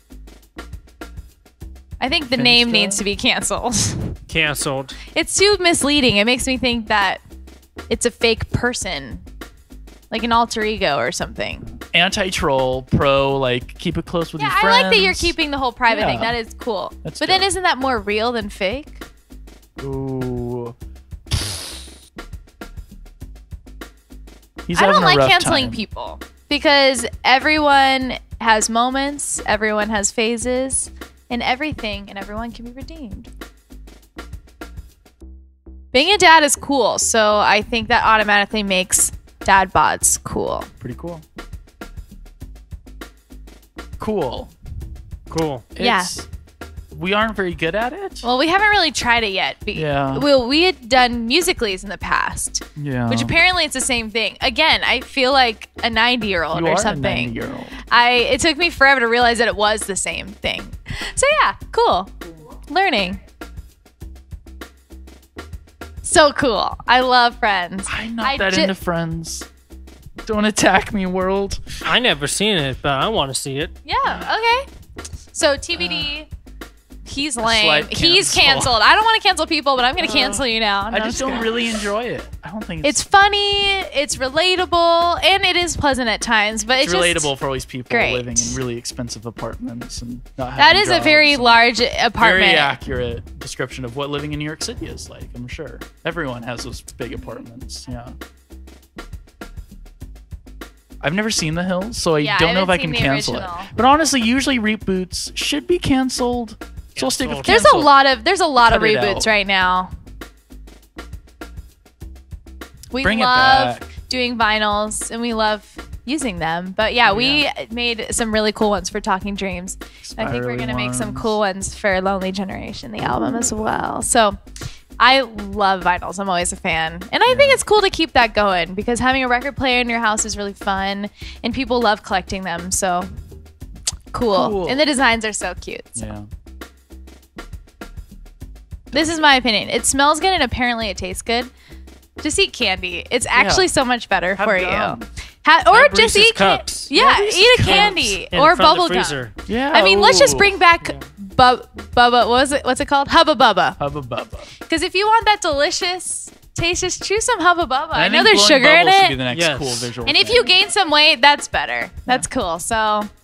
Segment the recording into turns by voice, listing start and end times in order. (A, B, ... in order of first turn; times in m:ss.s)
0:02.0-0:04.2 A
0:02.3-0:03.0 B
0:04.3-0:05.0 C
0:05.1-0:07.2 A
0:07.9-0:09.2 A
0:10.1-0:11.6 A
0:11.7-0:15.4 B
0:14.4-0:19.0 A
0:15.9-0:16.4 B
0:17.0-0:17.5 B
0:19.8-0:20.7 B
0:21.3-0:21.6 B
0:24.7-0:25.8 B
0:24.7-0:33.3 A
0:35.9-0:40.7 A
0:40.8-0:41.2 B
0:44.0-0:44.5 B
0:45.3-0:45.6 C
0:45.7-0:46.3 B
0:45.8-0:46.1 A
0:46.9-0:48.2 B
0:48.2-1:03.2 A
0:49.7-0:50.3 B
0:52.8-0:53.3 B
0:56.5-0:57.8 B
1:06.0-1:08.7 A
1:07.9-1:09.5 B
1:10.2-1:11.9 B
1:11.8-1:13.7 C
1:13.8-1:14.7 A
1:14.0-1:14.3 B
1:15.3-1:16.3 A
1:15.8-1:16.1 B
1:17.0-1:21.8 A
1:17.4-1:18.8 B
1:20.0-1:23.0 B
1:22.8-1:27.3 A
1:26.7-1:31.5 B
1:27.9-1:28.6 A
1:30.6-1:32.8 A
1:32.2-1:38.2 B
1:41.0-1:47.9 B
1:42.2-1:43.7 A
1:46.9-1:47.6 C
1:47.4-1:49.9 A
1:48.6-1:49.3 B
1:52.9-2:04.4 A
1:53.0-1:53.9 B
1:57.0-1:57.4 B
2:00.0-2:01.4 B
2:03.0-2:03.7 B
2:05.0-2:13.1 A
2:07.3-2:07.6 B
2:14.1-2:16.1 A
2:14.3-2:14.8 B
2:16.0-2:16.2 B
2:18.9-2:19.2 B
2:18.9-2:21.5 A
2:22.2-2:33.8 A
2:23.3-2:23.7 B
2:24.3-2:25.1 B
2:25.7-2:26.9 C
2:26.9-2:28.2 B
2:27.6-2:29.3 C
2:29.5-2:30.6 B
2:33.8-2:34.5 B
2:34.6-2:39.2 A
2:37.9-2:40.6 B
2:39.3-2:39.9 C
2:40.0-2:43.1 A